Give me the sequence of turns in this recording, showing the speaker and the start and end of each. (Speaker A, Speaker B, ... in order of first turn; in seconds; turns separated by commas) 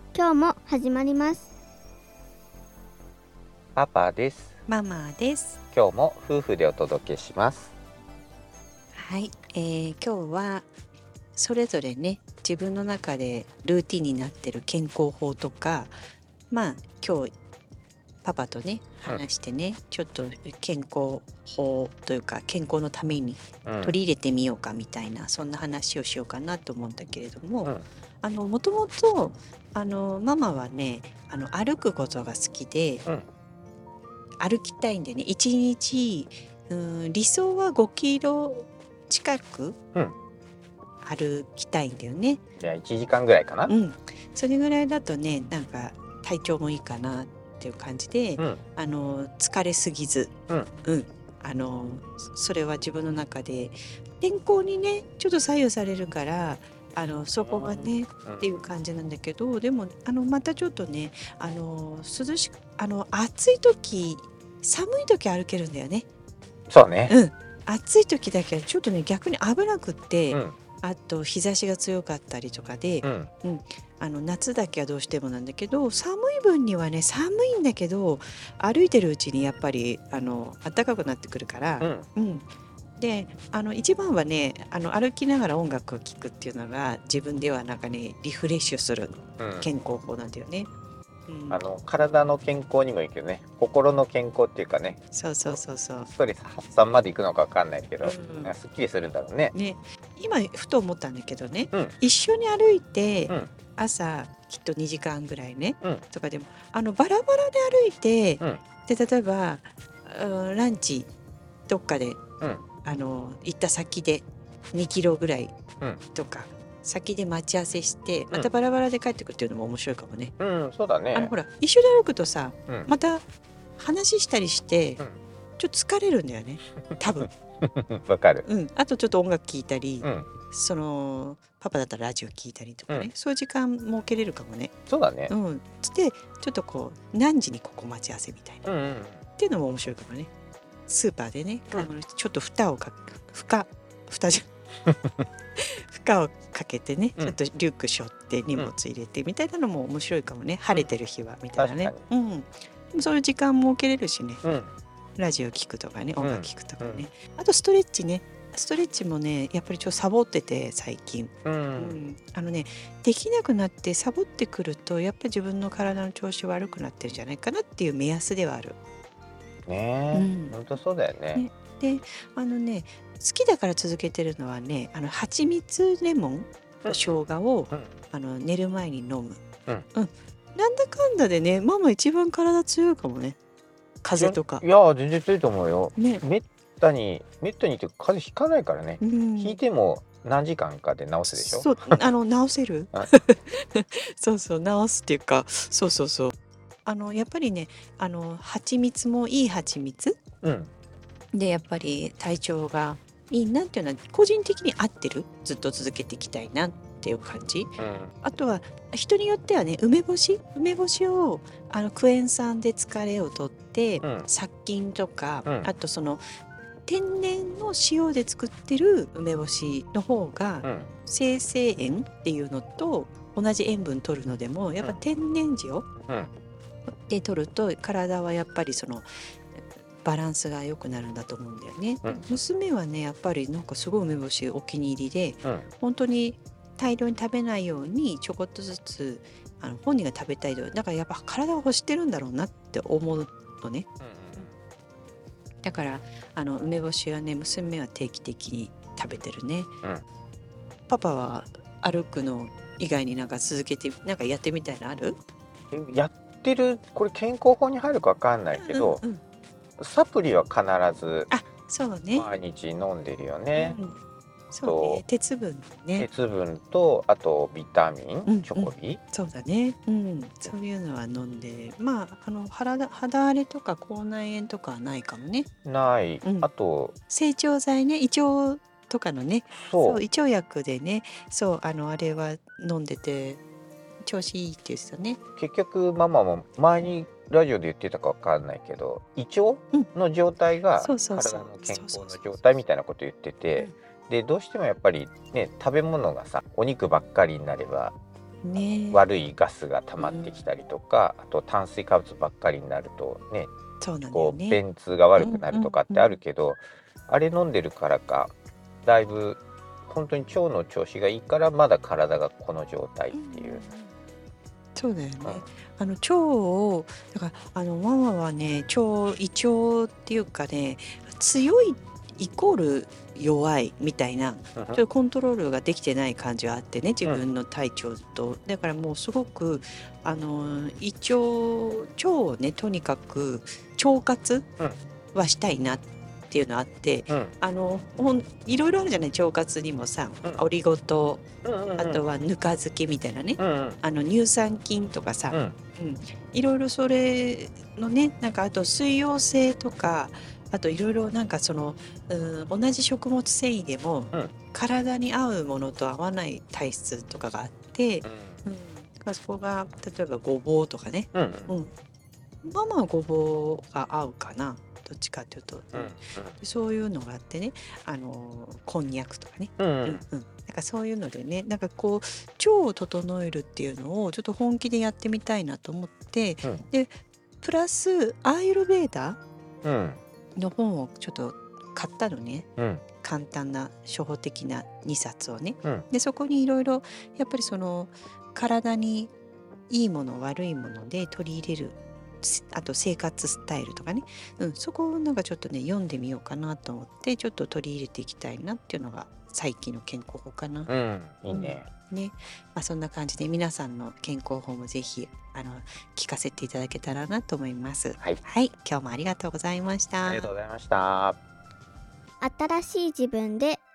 Speaker A: 0.1-1.5, Speaker B: 3.8-4.6, Speaker C: 4.7-5.6, Speaker B: 5.7-7.7, Speaker C: 8.9-10.7, Speaker C: 11.3-16.0, Speaker C: 16.5-17.3, Speaker C: 18.2-33.1, Speaker B: 23.6-23.9, Speaker C: 34.4-39.8, Speaker C: 41.0-42.4, Speaker B: 42.6-43.7, Speaker C: 43.7-50.3, Speaker C: 50.8-66.1, Speaker B: 57.4-58.6, Speaker B: 66.7-67.1, Speaker C: 67.1-90.7, Speaker B: 70.3-70.6, Speaker B: 73.0-73.3, Speaker B: 81.8-82.1, Speaker B: 89.4-89.7, Speaker C: 91.3-91.6, Speaker B: 91.5-99.5, Speaker C: 95.1-96.1, Speaker C: 98.0-98.6, Speaker C: 99.5-111.1, Speaker C: 111.7-112.2, Speaker C: 112.8-120.3, Speaker B: 120.4-121.3, Speaker C: 121.1-123.2, Speaker C: 123.8-125.0, Speaker C: 125.6-127.3, Speaker B: 126.8-128.4, Speaker C: 128.4-134.7, Speaker B: 130.0-130.3, Speaker B: 134.9-135.3, Speaker C: 135.3-138.7, Speaker B: 138.7-139.2, Speaker C: 139.4-140.3, Speaker C: 140.9-144.5, Speaker B: 144.9-145.2, Speaker C: 145.6-154.4, Speaker B: 151.6-152.0, Speaker B: 154.4-154.7, Speaker C: 155.2-168.8, Speaker B: 156.2-157.1, Speaker B: 161.4-162.0, Speaker B: 169.7-171.4, Speaker C: 170.1-170.8, Speaker C: 171.3-179.4, Speaker B: 176.8-177.9, Speaker C: 179.9-183.4, Speaker C: 184.0-184.7, Speaker B: 184.2-192.1, Speaker C: 186.0-186.2, Speaker C: 189.0-189.6, Speaker C: 191.3-196.3, Speaker C: 196.8-200.2, Speaker B: 200.4-200.7, Speaker C: 201.3-216.2, Speaker B: 207.8-208.1, Speaker B: 214.0-214.3, Speaker C: 216.9-225.9, Speaker B: 220.6-220.9, Speaker C: 226.9-243.9, Speaker B: 232.0-232.3, Speaker B: 244.0-244.5, Speaker C: 245.6-249.7, Speaker C: 250.9-255.2, Speaker B: 255.7-259.0, Speaker C: 258.5-259.2, Speaker B: 259.8-261.3, Speaker C: 261.3-262.3, Speaker B: 262.1-263.8, Speaker C: 263.6-264.0, Speaker C: 264.5-266.1, Speaker B: 264.6-265.0, Speaker B: 266.0-269.0, Speaker C: 268.3-275.5, Speaker B: 275.6-276.9, Speaker C: 276.2-276.5, Speaker C: 277.1-283.4, Speaker B: 279.5-280.0, Speaker C: 284.0-285.2, Speaker B: 285.4-297.9, Speaker C: 290.8-292.4, Speaker C: 298.4-299.0, Speaker B: 298.9-303.5, Speaker C: 300.0-300.4, Speaker C: 303.8-304.6, Speaker B: 304.1-308.3, Speaker C: 305.2-306.2, Speaker B: 308.9-313.6, Speaker C: 313.1-313.9, Speaker C: 314.8-334.5, Speaker B: 324.6-324.8, Speaker C: 335.1-341.2, Speaker B: 341.4-342.0, Speaker C: 341.8-361.7, Speaker B: 343.4-343.8, Speaker B: 345.3-345.6, Speaker B: 358.0-358.4, Speaker B: 361.1-361.6, Speaker C: 362.4-379.2, Speaker B: 365.7-366.4, Speaker B: 369.6-370.0, Speaker B: 379.6-380.0, Speaker C: 380.4-389.1, Speaker B: 382.6-382.8, Speaker C: 389.7-400.7, Speaker B: 400.7-401.7, Speaker C: 401.3-410.3, Speaker B: 410.1-411.2, Speaker A: 412.2-413.6